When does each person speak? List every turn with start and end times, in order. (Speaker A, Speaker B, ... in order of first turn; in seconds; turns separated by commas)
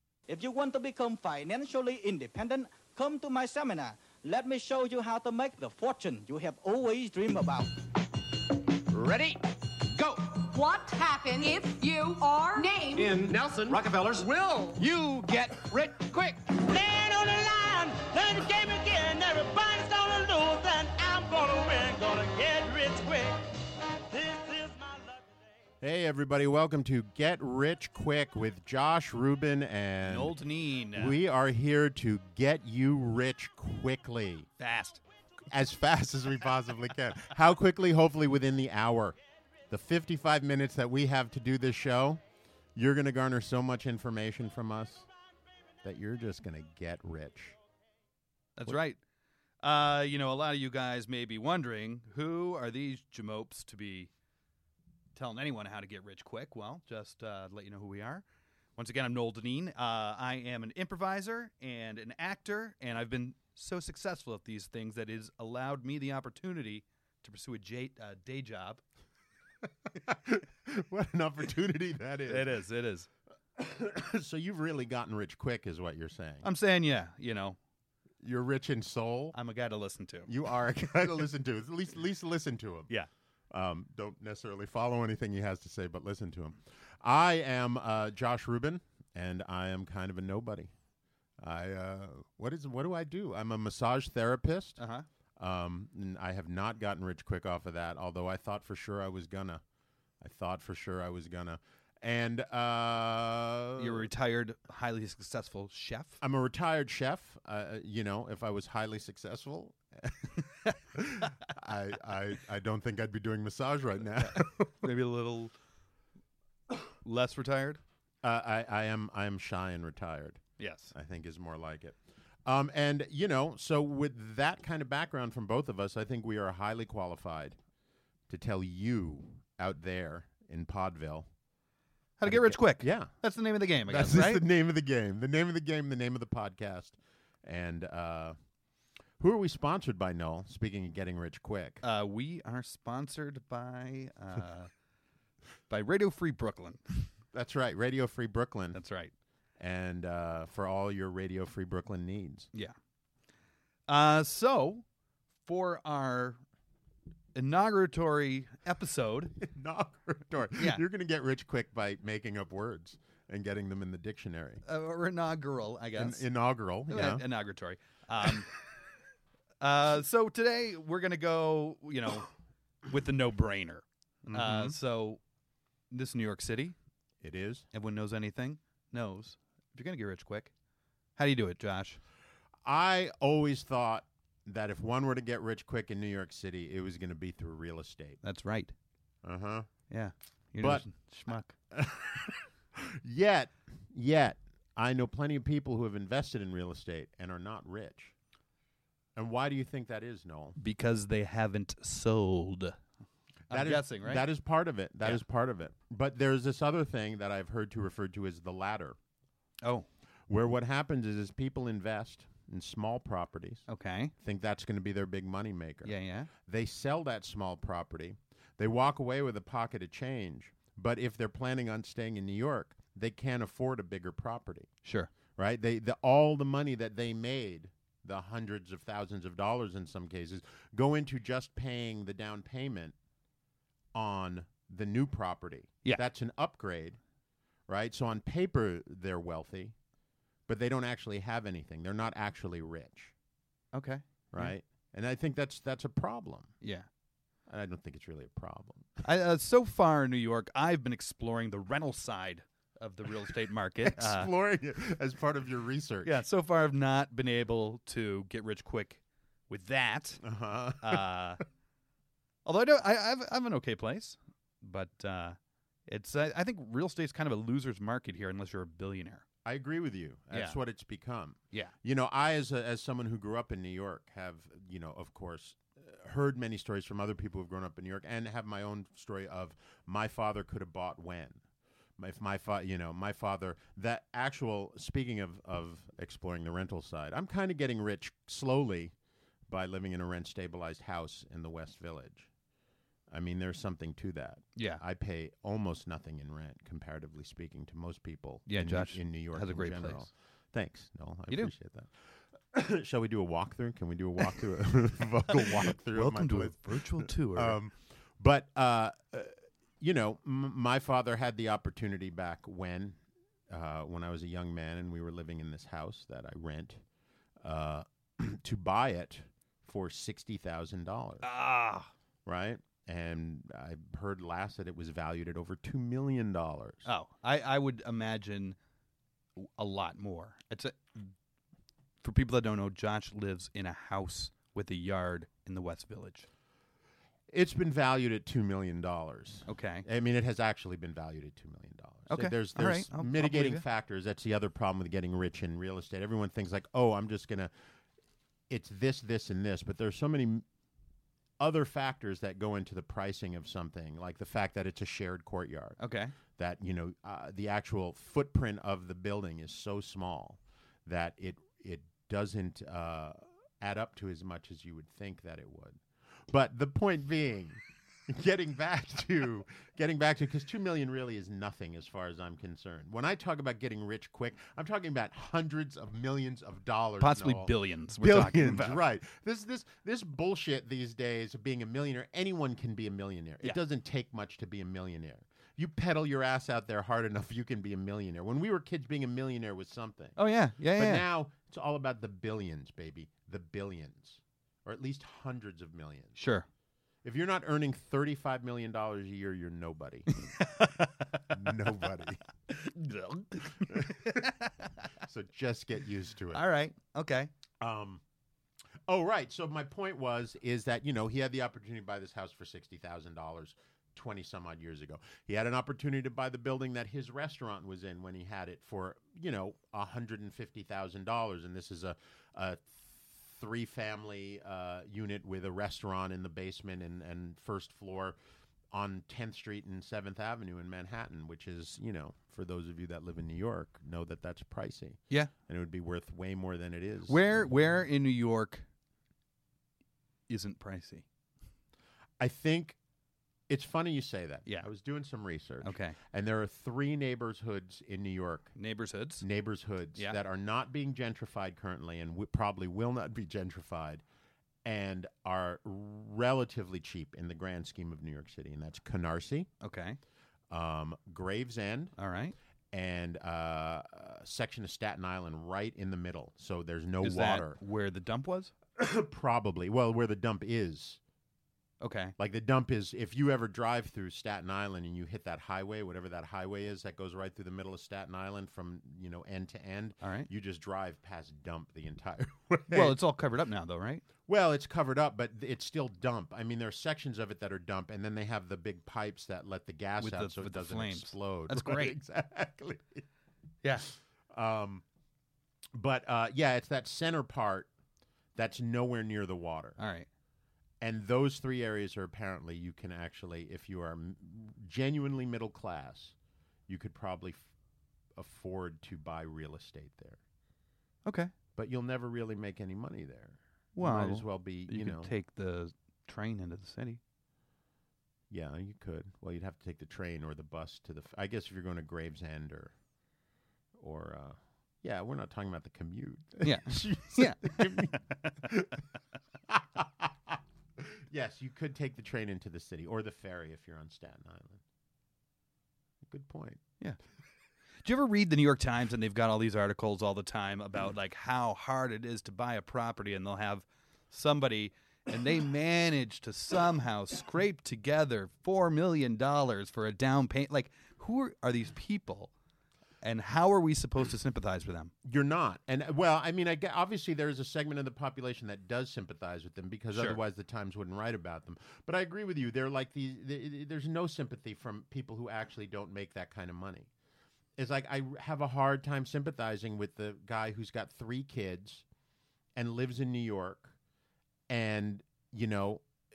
Speaker A: 0.3-7.7, Speaker B: 8.9-9.4, Speaker B: 10.0-10.2, Speaker C: 10.3-13.2, Speaker B: 12.9-16.5, Speaker D: 16.6-23.5, Speaker D: 24.1-25.6, Speaker E: 25.8-30.3, Speaker F: 30.1-31.2, Speaker E: 30.9-34.5, Speaker F: 34.6-35.0, Speaker E: 35.5-39.2, Speaker E: 39.7-42.2, Speaker E: 42.8-45.1, Speaker E: 45.8-47.6, Speaker F: 48.6-49.0, Speaker F: 49.6-54.1, Speaker F: 55.1-58.2, Speaker F: 58.8-68.8, Speaker E: 70.0-72.6, Speaker F: 72.3-73.1, Speaker E: 73.6-76.5, Speaker F: 76.4-77.6, Speaker E: 78.2-79.3, Speaker F: 79.3-80.3, Speaker E: 80.3-82.9, Speaker E: 83.5-90.7, Speaker E: 91.4-94.8, Speaker F: 94.8-95.1, Speaker E: 95.4-99.6, Speaker E: 100.2-104.1, Speaker F: 103.8-106.2, Speaker E: 106.2-110.4, Speaker E: 110.9-114.8, Speaker F: 114.2-115.5, Speaker F: 117.0-117.8, Speaker E: 118.2-127.6, Speaker F: 120.6-120.9, Speaker E: 128.3-131.3, Speaker F: 132.2-134.4, Speaker E: 132.2-133.1, Speaker E: 133.9-138.4, Speaker E: 139.2-141.8, Speaker F: 141.8-144.7, Speaker F: 145.7-147.1, Speaker E: 147.3-148.8, Speaker F: 148.7-149.1, Speaker E: 149.6-152.5, Speaker F: 153.9-154.8, Speaker F: 155.5-156.4, Speaker F: 157.3-159.3, Speaker E: 159.4-164.6, Speaker F: 160.6-160.8, Speaker F: 164.7-166.3, Speaker E: 166.0-167.2, Speaker F: 166.9-168.5, Speaker F: 169.6-172.3, Speaker F: 172.9-175.2, Speaker E: 174.3-174.8, Speaker F: 175.9-176.8, Speaker E: 177.2-177.7, Speaker F: 177.7-180.5, Speaker F: 181.2-182.0, Speaker E: 182.7-188.2, Speaker F: 188.2-188.7, Speaker E: 189.2-189.7, Speaker F: 189.9-191.6, Speaker E: 190.6-190.8, Speaker E: 191.7-198.1, Speaker E: 199.2-200.6, Speaker F: 200.6-202.8, Speaker F: 203.5-204.2, Speaker E: 203.5-209.0, Speaker F: 209.6-209.9, Speaker E: 210.3-213.7, Speaker F: 213.7-214.1, Speaker E: 214.2-224.7, Speaker F: 215.8-216.3, Speaker F: 224.8-225.1, Speaker E: 225.4-232.9, Speaker E: 233.9-237.0, Speaker E: 237.7-239.8, Speaker E: 240.5-243.1, Speaker F: 243.7-244.5, Speaker E: 244.3-246.5, Speaker F: 246.6-246.9, Speaker E: 247.5-249.0, Speaker F: 249.0-254.3, Speaker E: 253.8-256.2, Speaker F: 256.0-260.2, Speaker E: 260.2-261.1, Speaker F: 260.8-261.4, Speaker F: 262.4-269.2, Speaker E: 269.4-281.4, Speaker F: 270.3-270.6, Speaker E: 282.0-288.9, Speaker E: 289.5-292.3, Speaker E: 293.1-301.9, Speaker F: 294.6-294.8, Speaker F: 298.5-300.1, Speaker E: 302.5-313.0, Speaker F: 305.3-307.6, Speaker E: 313.5-316.8, Speaker E: 317.4-321.3, Speaker F: 321.2-321.9, Speaker E: 322.3-326.9, Speaker F: 326.9-328.6, Speaker F: 329.4-331.1, Speaker F: 332.0-336.3, Speaker E: 337.3-347.5, Speaker F: 339.5-339.9, Speaker F: 342.1-343.6, Speaker E: 348.5-350.4, Speaker E: 351.4-355.8, Speaker F: 355.8-356.1, Speaker E: 356.4-390.2, Speaker F: 377.0-378.8, Speaker F: 390.2-391.1, Speaker E: 390.7-396.2, Speaker F: 396.2-396.5, Speaker E: 397.0-400.2, Speaker F: 400.1-401.6, Speaker E: 401.3-402.2, Speaker F: 402.5-404.6, Speaker E: 403.5-404.3, Speaker E: 405.0-406.4, Speaker F: 406.3-407.3, Speaker E: 407.6-408.0, Speaker E: 408.9-428.2, Speaker E: 428.7-437.2, Speaker F: 437.1-438.7, Speaker F: 440.3-441.1, Speaker E: 442.2-442.8, Speaker E: 443.5-448.5, Speaker F: 445.6-446.0, Speaker F: 448.6-449.2, Speaker E: 449.2-454.0, Speaker E: 454.6-459.5, Speaker F: 459.6-460.0, Speaker E: 460.5-461.9, Speaker F: 462.0-462.4, Speaker E: 462.7-467.6, Speaker F: 467.0-468.5, Speaker E: 468.8-471.0, Speaker F: 471.8-472.1, Speaker E: 472.2-483.0, Speaker F: 480.0-480.3, Speaker F: 482.7-484.1, Speaker E: 484.3-493.1, Speaker F: 490.0-491.9, Speaker E: 494.3-494.8, Speaker E: 495.7-497.7, Speaker E: 498.4-499.8, Speaker F: 499.8-500.1, Speaker E: 500.8-506.1, Speaker E: 506.7-507.5, Speaker E: 508.2-510.2, Speaker F: 511.1-511.3, Speaker E: 511.6-515.1, Speaker F: 513.8-517.0, Speaker E: 518.3-522.7, Speaker E: 523.8-528.8, Speaker F: 526.4-527.9, Speaker E: 529.5-534.6, Speaker E: 536.0-536.6, Speaker F: 537.8-552.3, Speaker F: 553.0-554.9, Speaker E: 555.0-566.9, Speaker F: 559.9-560.2, Speaker E: 567.6-571.9, Speaker E: 572.6-573.7, Speaker E: 574.5-575.8